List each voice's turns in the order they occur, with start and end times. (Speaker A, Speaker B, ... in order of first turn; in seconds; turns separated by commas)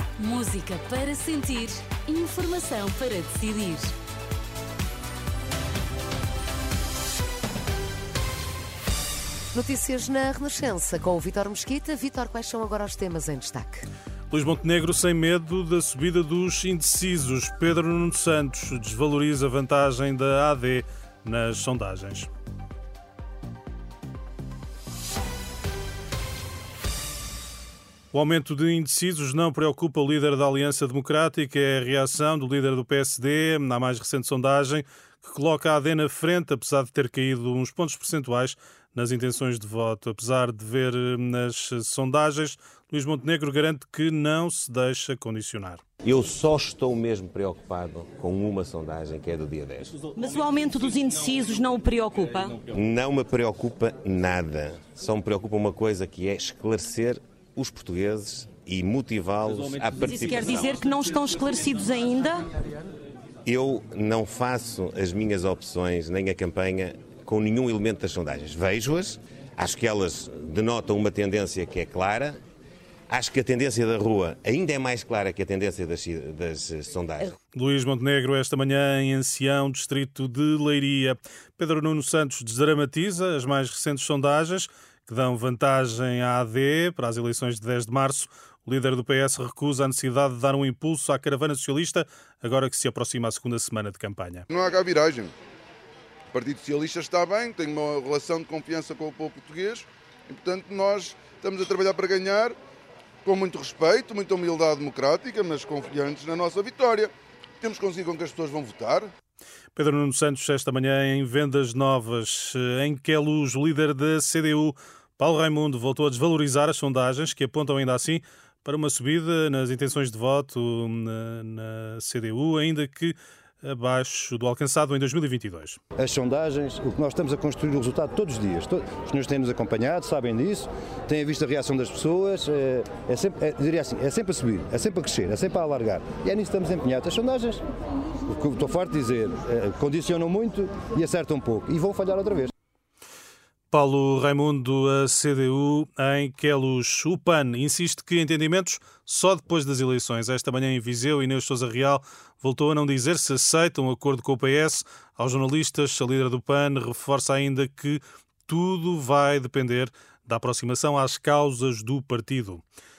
Speaker A: 0.2-3.9, Speaker B: 9.5-13.8, Speaker C: 14.3-22.3, Speaker C: 28.1-45.8, Speaker D: 46.0-50.1, Speaker E: 50.1-52.5, Speaker D: 52.7-60.8, Speaker E: 60.1-62.5, Speaker D: 63.5-72.4, Speaker D: 73.1-77.3, Speaker C: 77.5-94.5, Speaker F: 94.5-95.3, Speaker F: 96.3-102.5, Speaker F: 103.2-109.1, Speaker C: 109.8-125.8, Speaker G: 126.0-137.6, Speaker G: 138.3-142.5, Speaker C: 143.7-162.6